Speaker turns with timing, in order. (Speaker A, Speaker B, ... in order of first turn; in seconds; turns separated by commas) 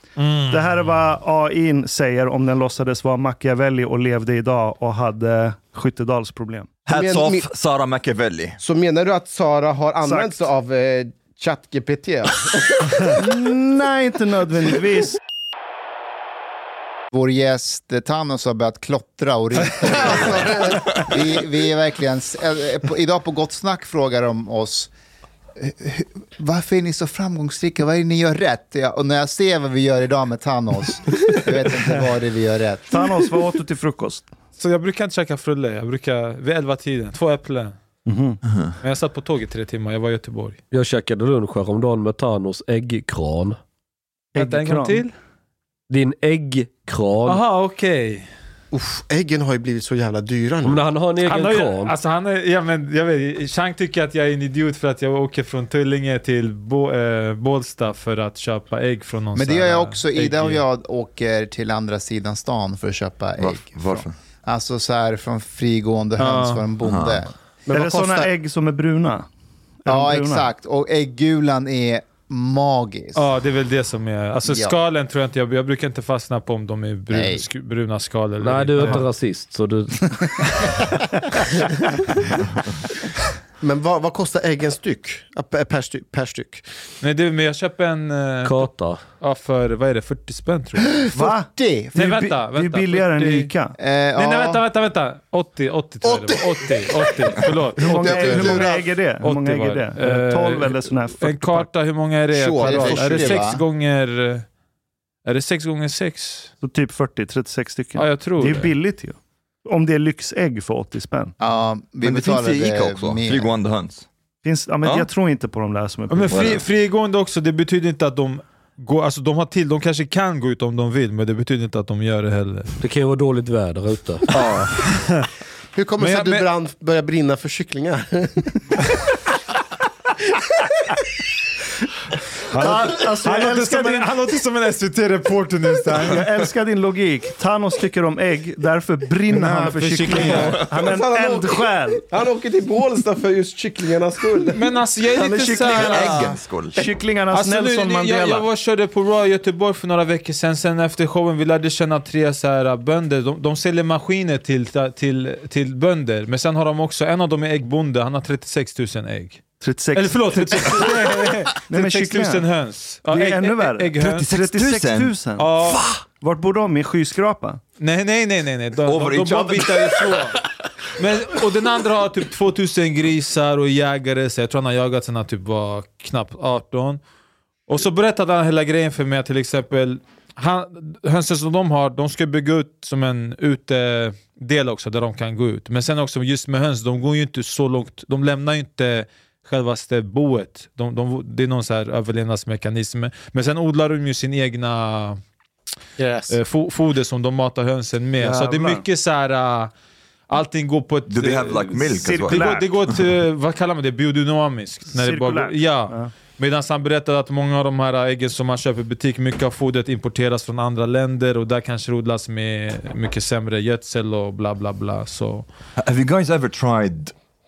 Speaker A: 0.2-0.8, Speaker B: 0.5-6.7, Speaker C: 6.9-8.6, Speaker D: 6.9-7.5, Speaker D: 8.6-13.2, Speaker B: 10.0-10.4, Speaker B: 13.2-15.2, Speaker E: 17.1-24.9, Speaker D: 19.8-21.0, Speaker E: 25.6-33.1, Speaker B: 32.9-34.3, Speaker A: 34.6-37.8, Speaker B: 38.1-38.4, Speaker C: 38.5-38.7, Speaker A: 38.8-40.6, Speaker F: 40.7-43.6, Speaker B: 44.3-45.0, Speaker A: 44.4-45.1, Speaker F: 45.9-47.4, Speaker A: 47.3-48.3, Speaker D: 48.7-50.8, Speaker F: 50.6-52.0, Speaker A: 51.2-60.6, Speaker E: 59.4-67.3, Speaker C: 63.4-64.1, Speaker A: 66.2-66.7, Speaker C: 66.8-67.2, Speaker D: 67.7-68.3, Speaker B: 67.7-69.3, Speaker B: 69.8-70.5, Speaker E: 69.9-73.3, Speaker A: 73.2-79.0, Speaker E: 74.5-74.8, Speaker E: 77.1-77.5, Speaker F: 78.4-80.2, Speaker D: 83.6-86.7, Speaker A: 87.0-88.7, Speaker F: 88.4-89.0, Speaker A: 89.2-91.1, Speaker B: 91.1-93.8, Speaker E: 91.1-92.0, Speaker A: 91.9-93.5, Speaker E: 93.8-94.6, Speaker A: 94.2-98.7, Speaker D: 96.0-98.9, Speaker B: 97.8-101.7, Speaker A: 99.2-104.5, Speaker D: 102.3-103.5, Speaker E: 102.6-103.6, Speaker A: 105.2-106.5, Speaker B: 106.6-111.3, Speaker A: 108.0-108.7, Speaker E: 111.4-113.5, Speaker C: 112.0-114.1, Speaker B: 114.4-116.6, Speaker A: 116.1-122.8, Speaker C: 116.3-116.6, Speaker F: 122.8-124.3, Speaker A: 124.3-125.3, Speaker D: 125.8-128.5, Speaker A: 126.0-126.5, Speaker A: 132.5-136.3, Speaker B: 132.6-134.1, Speaker B: 135.9-142.0, Speaker A: 139.3-140.7, Speaker D: 140.7-144.7, Speaker A: 144.5-146.3, Speaker B: 145.1-148.5, Speaker C: 145.5-146.9, Speaker A: 147.3-159.4, Speaker B: 159.6-162.5, Speaker A: 159.9-164.3, Speaker B: 163.1-165.6, Speaker C: 164.0-166.0, Speaker A: 165.4-165.8, Speaker B: 166.2-167.6, Speaker A: 167.8-170.4, Speaker C: 168.9-170.3, Speaker A: 171.0-177.0, Speaker A: 177.7-195.2, Speaker D: 196.0-196.4, Speaker A: 196.3-199.7, Speaker B: 198.2-198.8, Speaker A: 200.3-215.5, Speaker C: 201.1-203.0, Speaker B: 202.0-202.9, Speaker B: 204.9-206.1, Speaker C: 215.8-217.1